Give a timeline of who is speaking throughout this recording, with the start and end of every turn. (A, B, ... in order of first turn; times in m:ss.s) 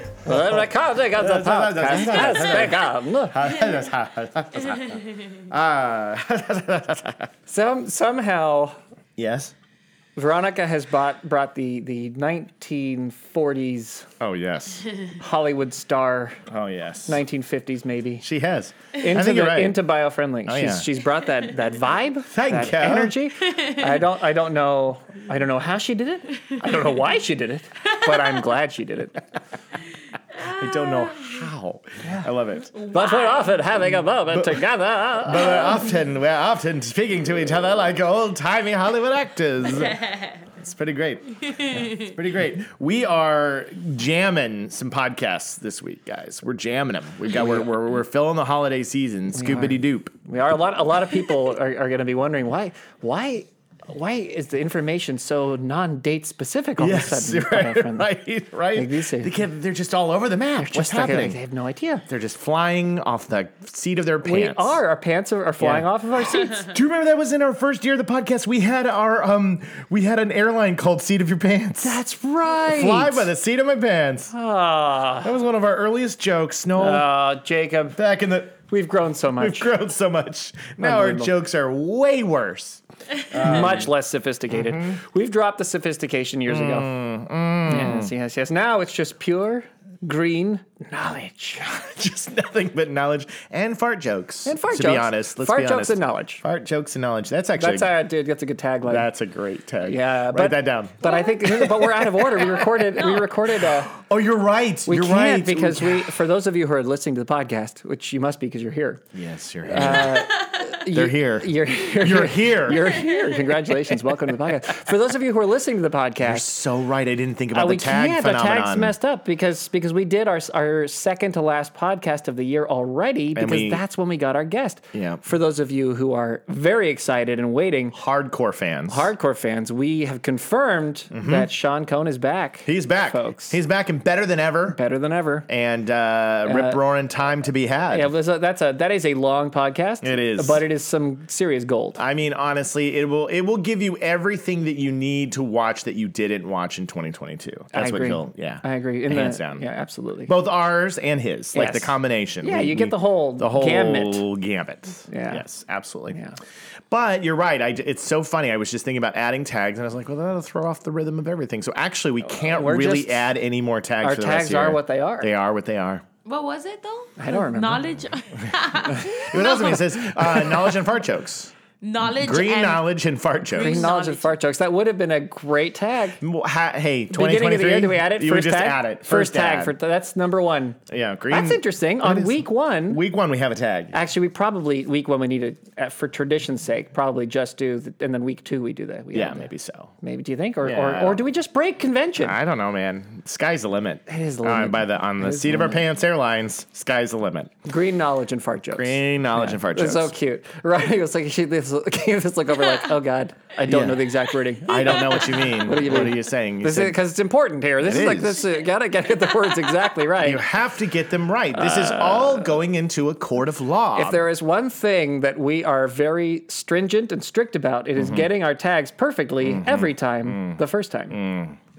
0:00.2-0:03.5 A
0:00.3-0:07.3 B
0:07.5-0:08.8 A
0:09.2-0:09.6 B
0:10.2-0:14.1 A
0:14.2-0:14.9 B
0:15.2-0:16.4 A
0:16.5-0:17.2 B
0:17.1-0:18.2 A
0:18.2-0:19.8 B
0:19.0-0:29.3 A
0:20.5-0:20.9 B
0:22.3-0:23.2 B
0:28.1-0:28.4 B
0:30.4-0:32.8 B
0:32.8-0:33.6 C
0:32.9-0:35.9 A
0:34.3-0:34.6 B
0:35.2-0:50.2 B
0:40.0-0:40.4 C
0:41.6-0:42.0 C
0:49.3-0:58.1 A
0:56.8-1:01.4 B
0:58.8-0:59.3 A
1:00.6-1:02.0 A
1:02.1-1:04.8 B
1:04.2-1:06.7 A
1:05.6-1:12.0 B
1:11.8-1:13.3 A
1:12.6-1:14.3 B
1:14.3-1:15.3 A
1:15.2-1:17.1 B
1:16.8-1:18.0 A
1:18.0-1:18.6 B
1:18.7-1:19.7 A
1:19.4-1:23.9 B
1:20.8-1:21.3 A
1:23.4-1:26.9 A
1:24.6-1:25.0 B
1:26.5-1:28.1 B
1:27.7-1:31.7 A
1:31.6-1:37.9 B
1:34.4-1:36.4 A
1:37.6-1:39.1 A
1:38.9-1:42.3 B
1:39.9-1:44.0 A
1:43.7-1:46.1 B
1:44.9-1:49.0 A
1:49.1-1:50.3 B
1:49.6-1:56.5 A
1:50.9-1:53.0 B
1:53.2-1:53.6 C
1:56.2-1:59.0 B
1:57.5-2:08.0 A
2:03.4-2:03.8 B
2:04.9-2:05.2 B
2:07.9-2:09.1 B
2:08.9-2:13.6 A
2:11.1-2:11.5 B
2:12.7-2:14.8 B
2:14.7-2:15.5 A
2:15.5-2:18.1 B
2:16.4-2:16.8 A
2:17.9-2:22.0 A
2:20.0-2:20.6 B
2:22.0-2:29.6 B
2:27.7-2:30.3 A
2:30.3-2:36.2 B
2:31.6-2:34.2 A
2:35.1-2:35.4 A
2:36.1-2:36.4 A
2:36.9-2:46.0 B
2:42.3-2:43.3 A
2:44.0-2:45.3 A
2:46.2-2:50.7 C
2:47.2-2:47.8 A
2:49.1-2:51.5 B
2:51.8-2:52.8 C
2:52.1-2:53.9 B
2:53.6-2:54.3 C
2:53.6-2:56.2 A
2:56.2-2:59.8 B
2:57.1-3:00.8 A
3:00.9-3:04.0 B
3:01.3-3:03.0 A
3:03.9-3:09.5 A
3:09.1-3:09.9 B
3:10.0-3:12.4 A
3:10.6-3:11.2 B
3:12.2-3:17.5 B
3:14.1-3:15.8 A
3:17.6-3:30.4 A
3:18.8-3:20.1 B
3:23.6-3:24.1 B
3:24.6-3:27.0 B
3:27.8-3:28.4 B
3:30.2-3:34.2 B
3:31.6-3:32.5 A
3:34.0-3:41.2 A
3:38.0-3:38.3 B
3:39.4-3:40.6 B
3:41.1-3:41.6 B